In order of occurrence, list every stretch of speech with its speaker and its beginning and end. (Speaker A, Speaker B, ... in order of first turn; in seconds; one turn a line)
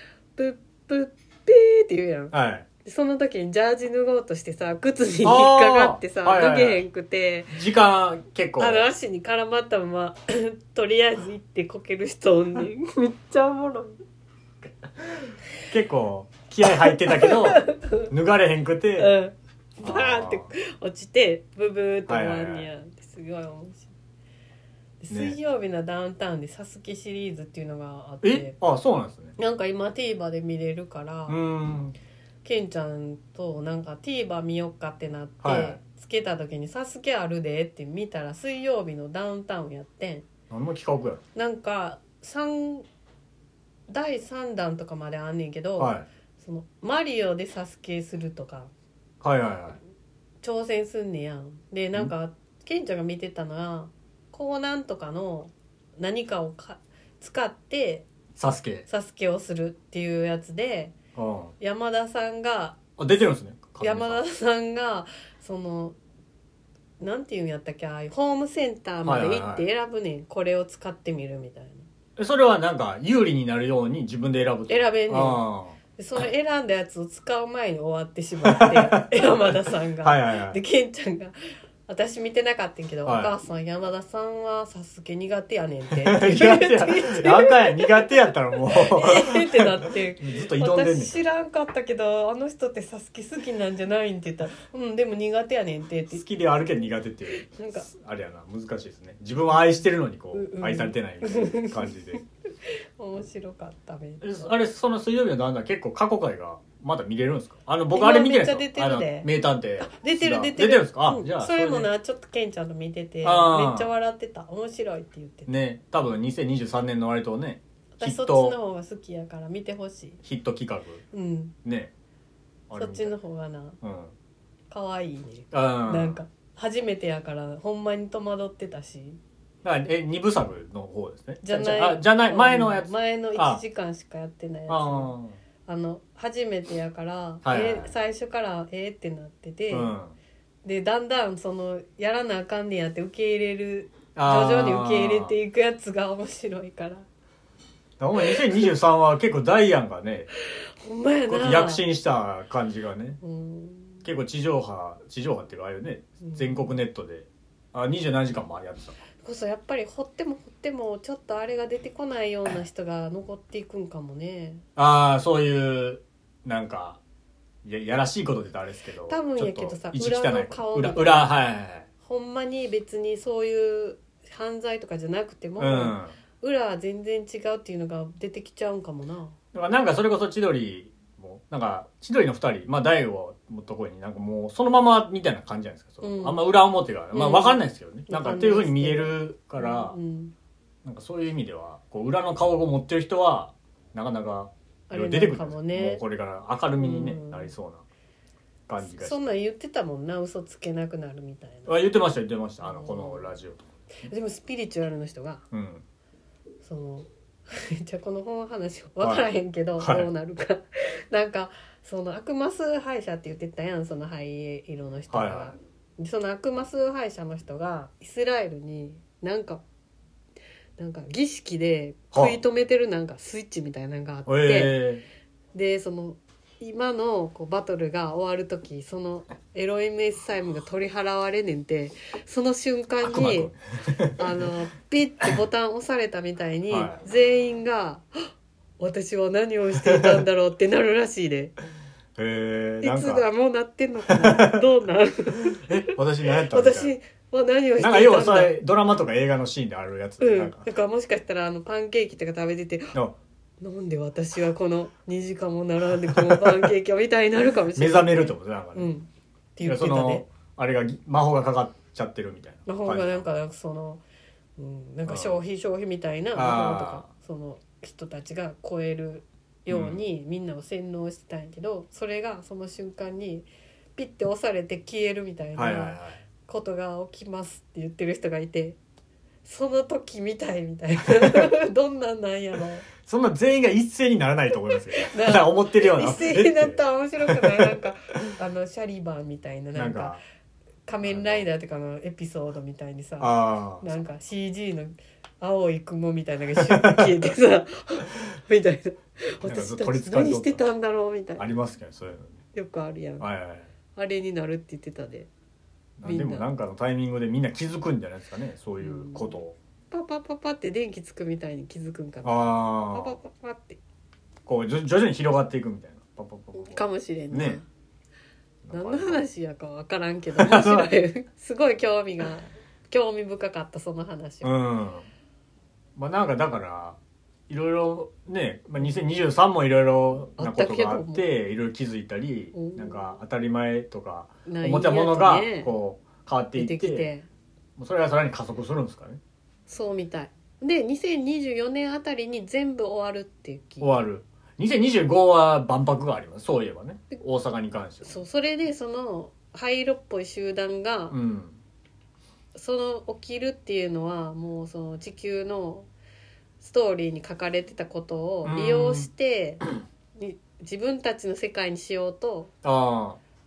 Speaker A: 0.3-7.6
Speaker B: 2.3-2.7
Speaker B: 5.2-6.8
Speaker B: 7.5-8.9
Speaker A: 8.6-14.0
Speaker B: 15.7-19.1
Speaker A: 16.7-18.1
Speaker A: 19.0-23.9
Speaker B: 19.8-20.5
Speaker B: 22.1-22.7
Speaker A: 25.0-28.6
Speaker B: 25.1-25.4
Speaker B: 28.2-29.3
Speaker A: 29.4-31.4
Speaker B: 31.3-31.9
Speaker A: 32.4-40.3
Speaker B: 35.4-35.8
Speaker B: 40.5-41.2
Speaker A: 41.3-42.9
Speaker A: 43.9-48.7
Speaker B: 45.8-46.1
Speaker B: 49.2-49.8
Speaker A: 50.4-58.0
Speaker B: 58.4-58.9
Speaker A: 58.9-60.9
Speaker B: 61.1-61.5
Speaker A: 61.6-62.9
Speaker B: 63.0-64.2
Speaker A: 63.8-66.0
Speaker A: 67.0-71.8
Speaker B: 69.0-69.7
Speaker B: 72.2-75.8
Speaker A: 74.7-75.4
Speaker A: 76.0-81.3
Speaker B: 78.4-80.6
Speaker A: 81.9-96.2
Speaker B: 83.0-83.3
Speaker B: 85.9-91.2
Speaker B: 96.1-102.2
Speaker A: 97.4-97.9
Speaker A: 100.3-102.2
Speaker A: 103.0-104.5
Speaker B: 104.2-111.9
Speaker A: 107.9-115.5
Speaker B: 113.2-113.9
Speaker B: 115.5-118.6
Speaker A: 118.0-120.2
Speaker B: 120.2-121.0
Speaker A: 121.1-121.5
Speaker B: 121.6-121.9
Speaker B: 122.7-123.1
Speaker A: 122.8-123.8
Speaker B: 123.8-124.1
Speaker A: 124.7-129.2
Speaker B: 125.5-126.2
Speaker B: 129.6-133.6
Speaker A: 131.4-135.1
Speaker B: 134.7-135.4
Speaker A: 135.7-139.9
Speaker B: 137.4-137.9
Speaker B: 139.7-140.1
Speaker A: 140.6-147.1
Speaker B: 144.2-145.3
Speaker B: 148.0-150.3
Speaker A: 148.3-148.7
Speaker A: 150.8-151.8
Speaker B: 151.3-153.2
Speaker A: 153.2-154.0
Speaker B: 154.0-158.9
Speaker A: 156.2-156.6
Speaker A: 159.2-164.6
Speaker B: 164.8-167.0
Speaker B: 167.6-171.9
Speaker A: 169.1-171.3
Speaker A: 172.0-179.3
Speaker B: 175.6-176.1
Speaker B: 179.5-190.0
Speaker A: 186.0-186.4
Speaker A: 187.1-190.3
Speaker B: 190.8-197.8
Speaker A: 194.9-196.0
Speaker A: 196.8-197.5
Speaker B: 198.7-199.2
Speaker A: 198.8-201.9
Speaker B: 201.7-203.7
Speaker A: 202.6-203.3
Speaker A: 204.0-205.4
Speaker B: 205.5-205.8
Speaker A: 206.6-219.6
Speaker B: 209.0-209.2
Speaker B: 209.8-210.1
Speaker B: 215.1-215.5
Speaker A: 220.8-224.7
Speaker B: 222.1-222.4
Speaker B: 224.3-225.0
Speaker A: 225.5-233.5
Speaker B: 233.0-234.5
Speaker A: 234.2-241.5
Speaker B: 236.7-237.0
Speaker B: 239.8-240.2
Speaker B: 242.2-243.2
Speaker A: 242.8-248.6
Speaker B: 244.1-244.6
Speaker B: 245.4-246.9
Speaker B: 247.8-250.7
Speaker A: 250.2-253.0
Speaker A: 253.6-260.2
Speaker B: 255.9-256.7
Speaker B: 257.7-258.9
Speaker B: 259.6-263.2
Speaker A: 262.6-264.0
Speaker A: 264.6-278.8
Speaker B: 265.1-265.4
Speaker B: 266.3-267.1
Speaker B: 269.7-270.0
Speaker B: 275.6-276.2
Speaker A: 279.4-282.9
Speaker B: 283.0-287.8
Speaker A: 284.7-290.2
Speaker B: 289.7-290.2
Speaker A: 290.9-301.4
Speaker B: 291.0-291.5
Speaker B: 293.2-293.8
Speaker B: 296.6-297.1
Speaker B: 299.4-300.6
Speaker B: 301.4-302.4
Speaker A: 302.5-303.3
Speaker B: 303.2-303.7
Speaker A: 303.9-305.3
Speaker B: 306.0-309.5
Speaker A: 306.0-306.5
Speaker A: 308.8-309.4
Speaker A: 309.9-313.8
Speaker B: 312.2-313.2
Speaker B: 314.4-317.6
Speaker A: 316.5-317.6
Speaker B: 318.6-319.2
Speaker A: 318.7-324.6
Speaker B: 320.3-320.9
Speaker B: 324.4-325.1
Speaker B: 325.9-337.1
Speaker A: 330.4-331.2
Speaker A: 332.5-333.1
Speaker A: 334.4-335.7
Speaker A: 336.6-337.2
Speaker B: 337.8-339.2
Speaker A: 339.7-344.0
Speaker B: 343.8-348.2
Speaker A: 348.0-351.2
Speaker B: 351.1-351.6
Speaker A: 352.5-355.9
Speaker A: 356.6-359.6
Speaker B: 358.4-359.1
Speaker A: 360.1-362.5
Speaker B: 362.6-363.2